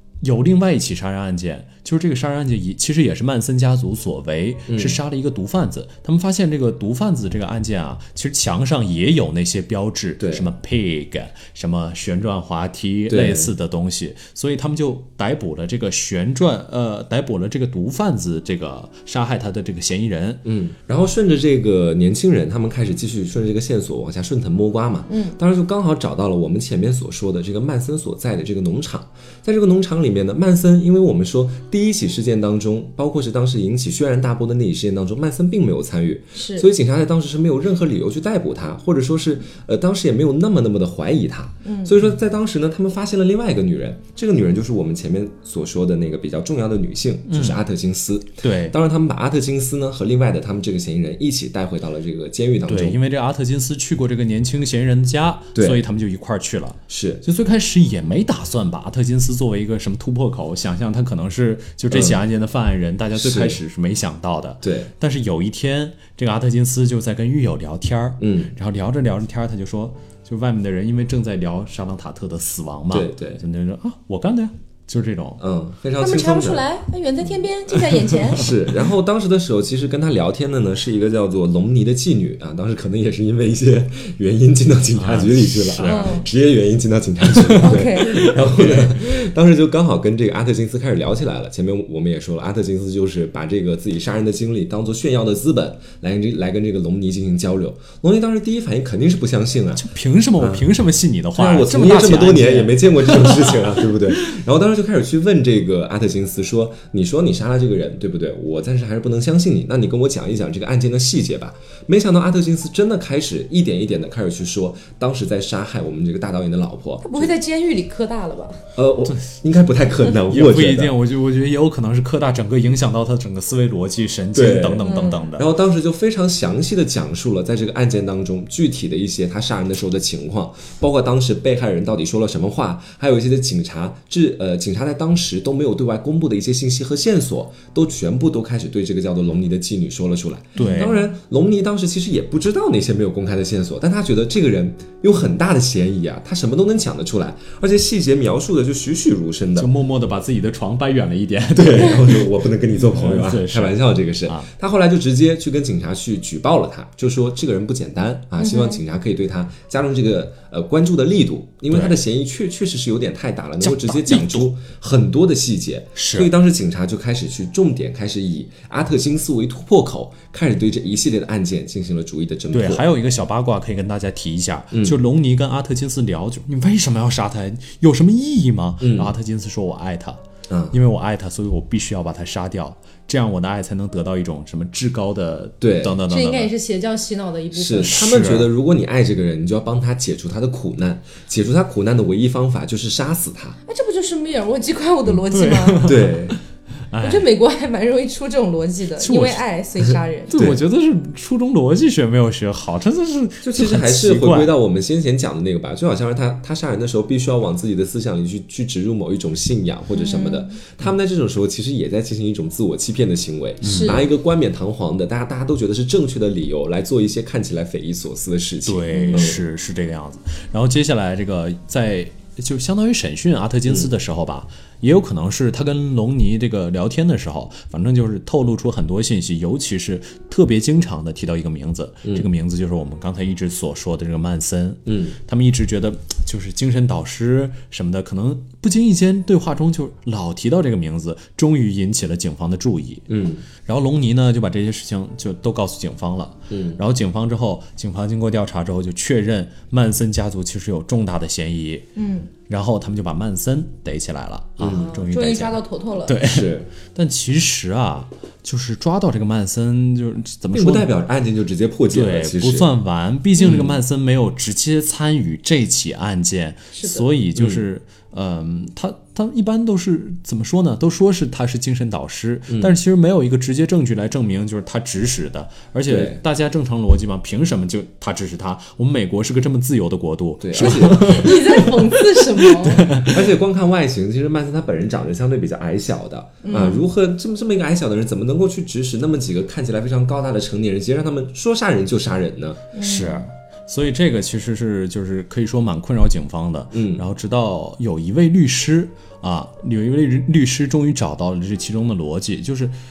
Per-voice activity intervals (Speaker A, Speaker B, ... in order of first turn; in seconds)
Speaker A: 0.2-20.4, 47.3-47.6, 48.4-48.7, 52.6-75.4, 77.9-78.5, 85.0-86.2, 87.3-89.0, 99.7-103.9, 119.1-119.4, 120.3-125.5, 140.6-141.0, 149.6-154.5, 161.7-161.9, 163.6-164.5, 165.9-166.3, 172.5-180.2, 180.7-186.5, 187.8-188.5, 195.3-197.3, 199.0-199.4, 200.3-204.5, 213.6-214.1, 218.7-243.1, 243.6-251.8, 252.5-260.9, 261.9-283.3, 292.8-302.7
Speaker B: 4.7-5.0, 10.2-10.5, 13.1-13.5, 20.4-53.0, 55.5-55.8, 56.9-57.2, 61.9-62.2, 63.1-63.6, 64.6-64.9, 68.2-68.5, 72.9-73.4, 75.4-76.6, 78.3-99.8, 100.4-100.7, 101.3-117.3, 118.7-120.9, 124.3-149.7, 151.5-172.9, 174.7-175.0, 178.8-179.1, 180.5-180.8, 185.6-186.0, 187.5-193.6, 195.8-196.4, 200.3-200.6, 203.4-219.4, 234.9-235.2, 243.1-243.4, 246.5-246.8, 254.6-254.9, 256.2-256.7, 260.5-262.7, 263.4-263.8, 267.4-267.6, 272.5-272.8, 275.9-276.2, 280.4-281.4, 283.0-292.6, 296.7-297.0
Speaker C: 25.1-25.4, 36.3-36.7, 41.6-42.0, 76.0-78.4, 85.8-86.3, 87.6-88.3, 117.0-118.6, 124.8-125.3, 158.4-158.8, 186.1-188.0, 193.7-195.9, 197.0-200.4, 209.9-210.6, 213.6-214.1, 218.9-219.4, 251.9-252.3, 254.6-256.2, 266.7-267.1, 280.6-282.9, 286.4-286.9, 292.7-293.3